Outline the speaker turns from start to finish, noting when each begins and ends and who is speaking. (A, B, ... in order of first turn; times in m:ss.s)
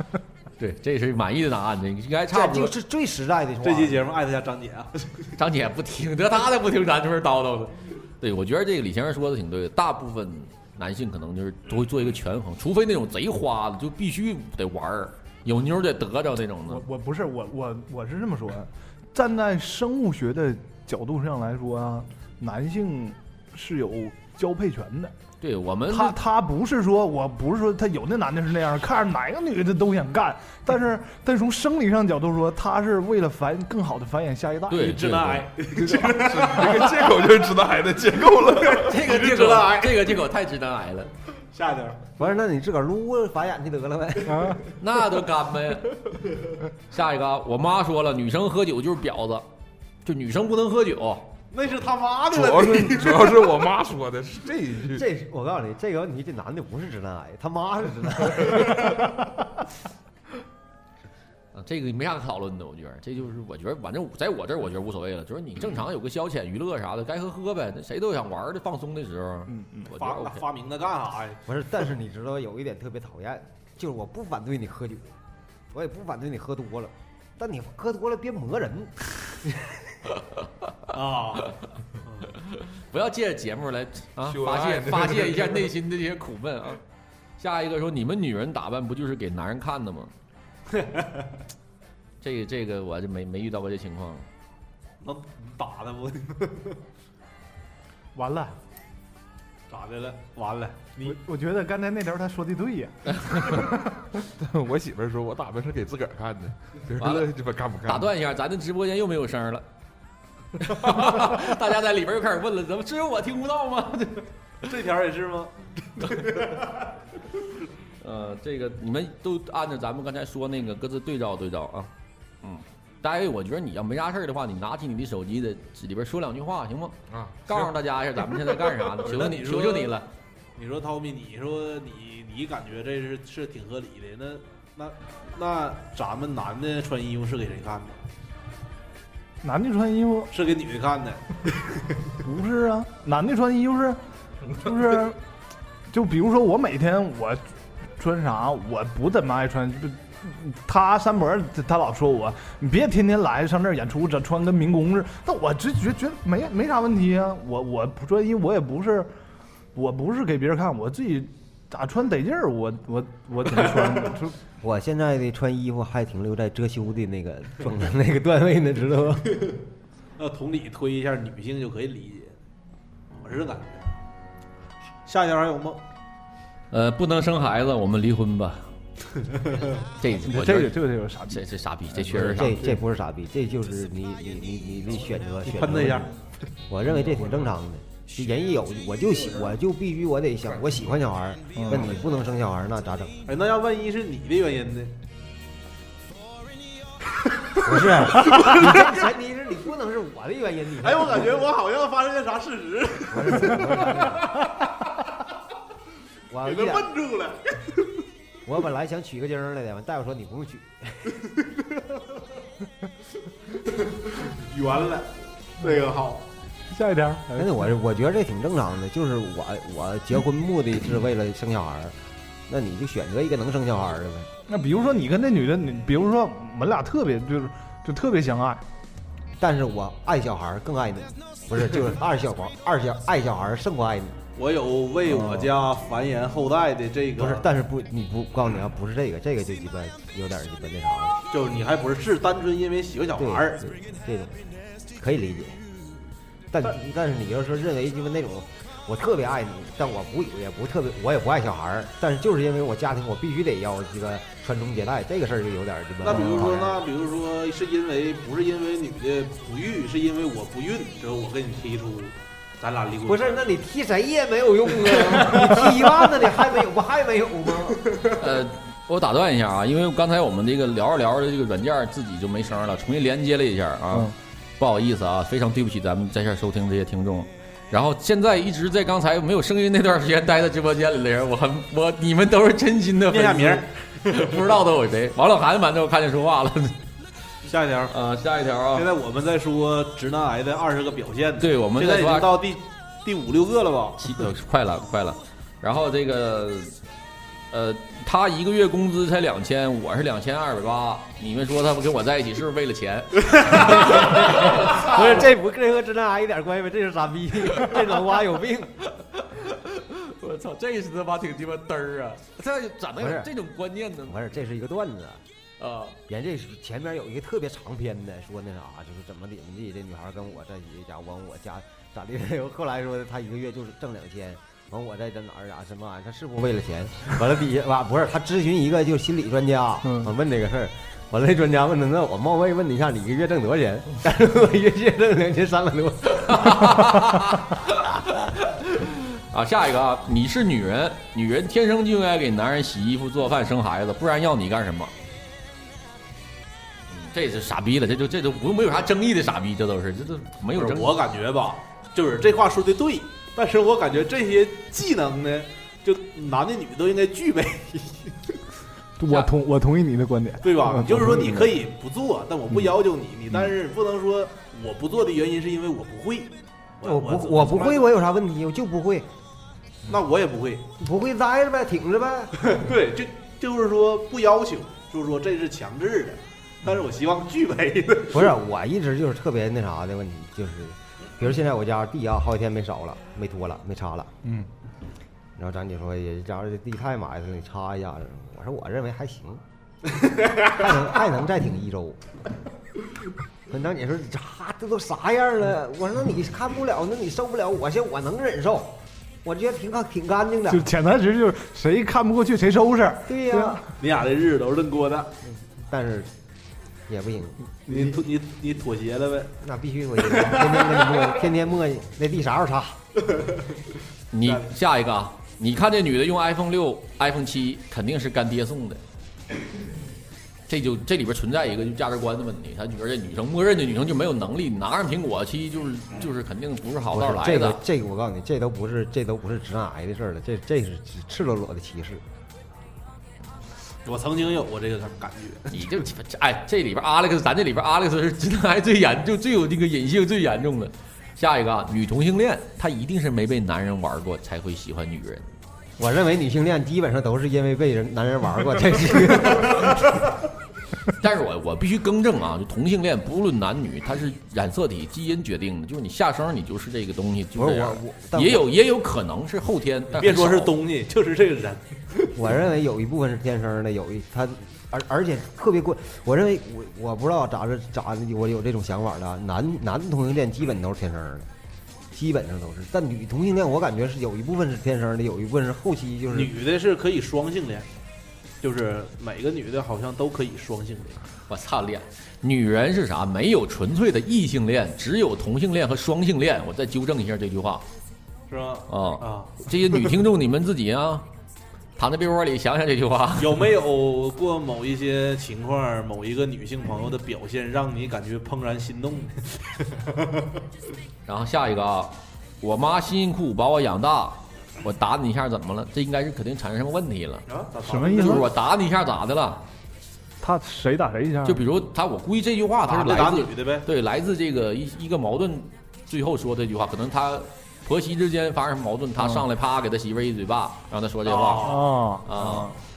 0:00.6-0:02.7 A
0:02.3-0:04.1 B
0:03.6-0:05.3 C
0:05.4-0:16.8 A
0:16.7-0:25.1 D
0:25.4-0:26.2 A
0:25.9-0:35.0 D
0:34.7-0:35.5 A
0:34.7-0:36.9 C
0:35.8-0:36.2 D
0:36.0-0:39.1 E
0:38.4-0:40.2 C
0:38.8-0:41.1 A
0:41.4-0:42.1 C
0:42.2-0:44.6 B
0:44.3-0:44.6 D
0:44.8-0:46.0 A
0:46.9-0:49.5 A
0:50.0-0:51.3 A
0:51.5-0:53.6 C
0:52.3-0:55.0 E
0:54.9-0:59.1 B
1:01.5-1:10.4 A
1:09.5-1:09.9 D
1:09.9-1:11.4 C
1:11.4-1:15.1 B
1:15.7-1:19.9 B
1:20.2-1:20.4 A
1:20.9-1:21.5 C
1:22.3-1:26.8 A
1:24.2-1:25.7 E
1:27.4-1:30.1 A
1:30.7-1:31.3 C
1:32.2-1:34.3 A
1:35.0-1:36.8 C
1:38.1-1:38.6 D
1:39.7-1:41.2 C
1:41.0-1:44.1 D
1:44.4-1:48.1 E
1:47.0-1:47.3 A
1:47.8-1:49.6 A
1:50.6-1:54.3 A
1:54.6-1:56.9 C
1:58.0-2:01.9 A
2:02.4-2:10.1 A
2:07.1-2:07.7 E
2:09.0-2:10.0 C
2:10.6-2:18.0 C
2:19.4-2:20.3 D
2:20.3-2:22.1 C
2:22.2-2:24.0 D
2:24.5-2:25.2 D
2:25.9-2:39.1 D
2:39.7-2:44.4 D
2:44.6-2:49.4 B
2:50.2-2:52.3 C
2:53.2-2:54.0 C
2:55.0-2:55.8 C
2:56.7-2:58.6 A
3:00.0-3:02.6 A
3:00.2-3:02.8 D
3:02.1-3:06.1 B
3:05.5-3:06.1 C
3:06.7-3:13.1 B
3:11.6-3:11.9 D
3:13.2-3:15.0 C
3:17.6-3:21.5 B
3:18.2-3:18.9 C
3:20.8-3:24.6 C
3:23.1-3:24.4 B
3:26.3-3:26.9 B
3:26.4-3:27.8 C
3:28.4-3:31.2 B
3:33.7-3:36.3 C
3:36.7-3:37.6 D
3:37.4-3:42.0 B
3:42.5-3:44.3 B
3:44.5-3:48.6 D
3:49.4-3:54.2 B
3:54.4-3:57.5 C
3:57.2-4:01.2 B
4:01.3-4:03.7 C
4:03.2-4:05.6 B
4:06.5-4:16.8 B
4:16.0-4:23.5 C
4:23.0-4:27.8 B
4:24.9-4:25.8 C
4:28.1-4:46.8 A
4:43.1-4:44.4 C
4:47.4-4:47.9 C
4:47.9-4:48.9 A
4:48.7-4:54.0 C
4:51.4-4:52.3 A
4:54.0-4:56.7 A
4:57.5-5:05.3 A
5:03.6-5:08.7 B
5:08.9-5:14.2 A
5:13.0-5:13.3 B
5:14.1-5:15.2 B
5:15.6-5:16.0 A
5:16.1-5:37.2 B
5:36.1-5:44.9 A
5:46.9-5:50.9 A
5:50.5-5:58.4 C
5:59.0-6:01.4 D
6:00.4-6:07.9 C
6:06.8-6:09.1 B
6:09.9-6:10.7 C
6:10.8-6:12.6 B
6:12.4-6:18.3 C
6:18.1-6:24.1 B
6:25.4-6:29.4 B
6:30.3-6:32.0 B
6:33.5-6:40.7 B
6:40.5-6:43.7 D
6:43.0-6:43.6 B
6:43.8-6:45.1 C
6:45.2-6:46.1 B
6:46.9-6:47.5 B
6:47.7-6:49.3 C
6:49.4-6:52.8 B
6:50.1-6:51.1 C
6:54.1-6:58.8 A
7:00.5-7:07.6 A
7:06.9-7:12.0 B
7:13.8-7:15.8 C
7:15.5-7:25.3 A
7:25.8-7:30.0 B
7:31.0-7:40.5 A
7:37.3-7:38.5 B
7:39.9-7:42.1 C
7:42.1-7:51.3 B
7:51.9-7:56.3 B
7:56.1-7:57.7 C
7:58.4-8:01.0 C
8:01.3-8:07.6 A
8:08.3-8:09.5 C
8:08.7-8:11.0 A
8:11.8-8:13.4 A
8:13.2-8:20.3 C
8:21.1-8:27.2 A
8:27.3-8:28.3 C
8:27.6-8:28.3 D
8:27.9-8:29.4 A
8:30.2-8:31.5 D
8:31.2-8:42.5 A
8:32.6-8:33.6 C
8:41.0-8:41.8 C
8:41.4-8:42.5 D